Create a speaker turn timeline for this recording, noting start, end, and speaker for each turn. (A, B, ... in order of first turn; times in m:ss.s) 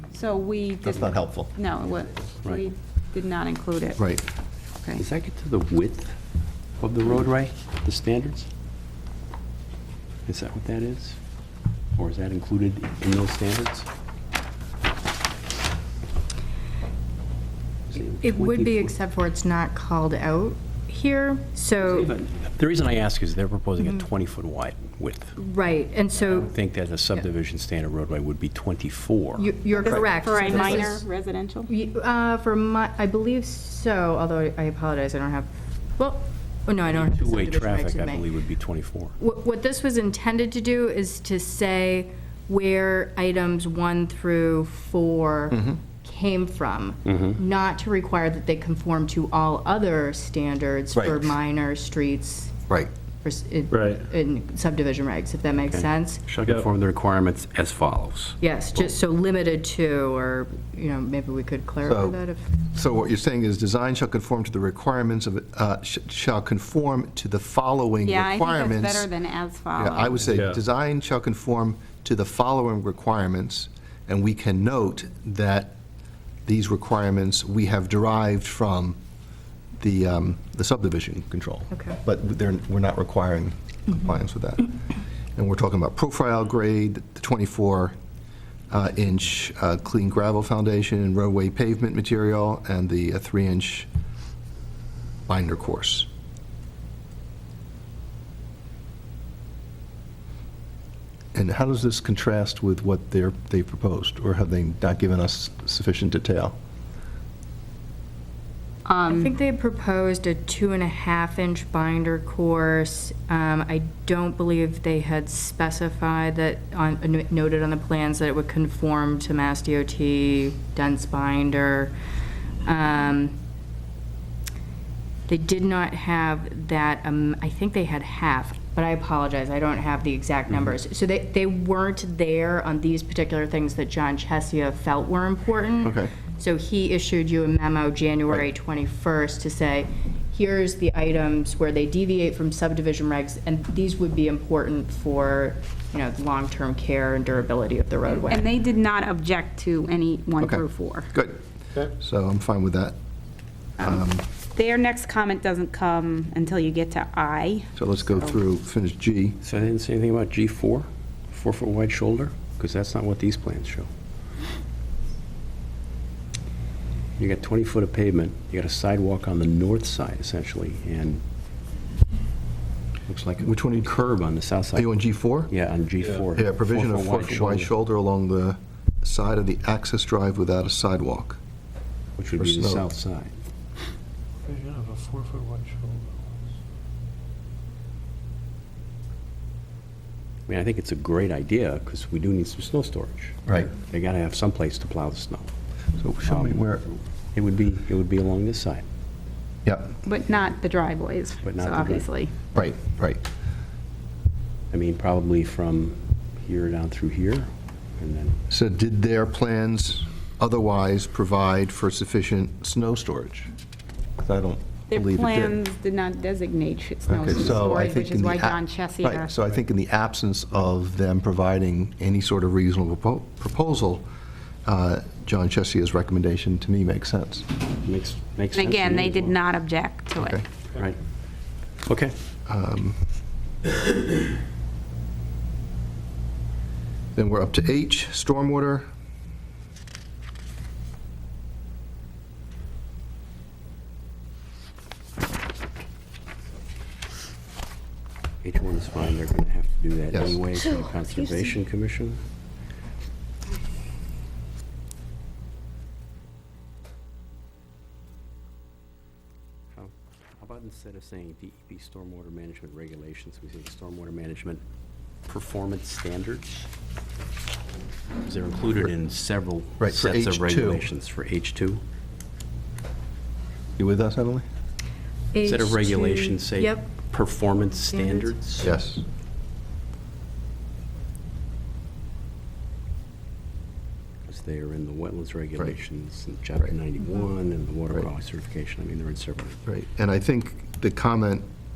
0:00.1-0:04.0 A
0:00.8-0:01.5 B
0:04.0-0:04.2 B
0:05.0-0:06.1 C
0:06.8-0:08.5 C
0:10.3-0:11.2 C
0:12.0-0:13.9 C
0:17.9-0:18.9 C
0:18.1-0:22.1 D
0:21.8-0:25.4 C
0:25.4-0:26.5 D
0:26.2-0:29.6 C
0:29.4-0:31.0 D
0:29.7-0:31.7 A
0:29.8-0:30.9 B
0:31.7-0:38.2 D
0:36.8-0:39.1 C
0:39.2-0:52.5 D
0:45.5-0:45.8 B
0:47.0-0:47.4 C
0:50.9-0:51.3 B
0:53.2-0:56.2 D
0:53.7-0:54.0 E
0:55.6-0:58.4 C
0:58.4-1:02.5 D
1:01.8-1:09.1 B
1:08.0-1:10.3 A
1:09.7-1:15.8 B
1:10.3-1:10.6 E
1:16.4-1:19.0 B
1:19.8-1:24.7 B
1:21.7-1:22.0 D
1:25.4-1:27.9 B
1:28.7-1:33.9 B
1:35.3-1:36.1 B
1:41.3-1:46.6 B
1:48.8-1:49.3 A
1:49.1-2:01.9 D
2:02.6-2:03.4 D
2:05.3-2:28.4 D
2:15.8-2:16.1 B
2:28.3-2:31.1 A
2:30.4-2:33.0 B
2:33.8-2:34.2 B
2:33.8-2:37.7 A
2:37.8-2:39.4 B
2:39.4-2:43.9 C
2:47.2-2:51.2 C
2:53.1-2:54.9 C
2:53.4-2:54.2 B
2:54.7-2:55.5 B
2:55.5-2:57.7 C
2:56.3-3:01.4 B
3:02.2-3:03.4 C
3:02.4-3:02.8 B
3:04.4-3:06.2 E
3:10.5-3:15.5 C
3:13.5-3:13.7 B
3:16.0-3:16.9 B
3:16.2-3:16.8 C
3:17.3-3:18.8 C
3:19.6-3:19.9 B
3:20.0-3:22.3 A
3:21.4-3:22.1 C
3:22.5-3:23.2 B
3:24.7-3:28.4 C
3:28.5-3:33.5 B
3:34.2-3:35.6 B
3:34.9-3:39.3 A
3:37.1-3:44.0 B
3:44.6-3:47.5 B
3:47.8-3:49.4 C
3:48.5-3:50.4 A
3:50.2-3:50.4 B
3:50.7-3:51.0 C
3:51.8-3:52.1 C
3:52.5-3:53.0 B
3:57.1-3:58.8 B
4:08.4-4:12.2 C
4:19.7-4:24.6 C
4:25.2-4:26.6 C
4:28.2-4:31.8 C
4:29.8-4:30.8 B
4:33.8-4:34.4 B
4:35.3-4:36.8 D
4:35.4-4:38.8 C
4:38.0-4:38.3 D
4:38.6-4:39.0 B
4:44.3-4:49.6 C
4:49.6-4:51.4 B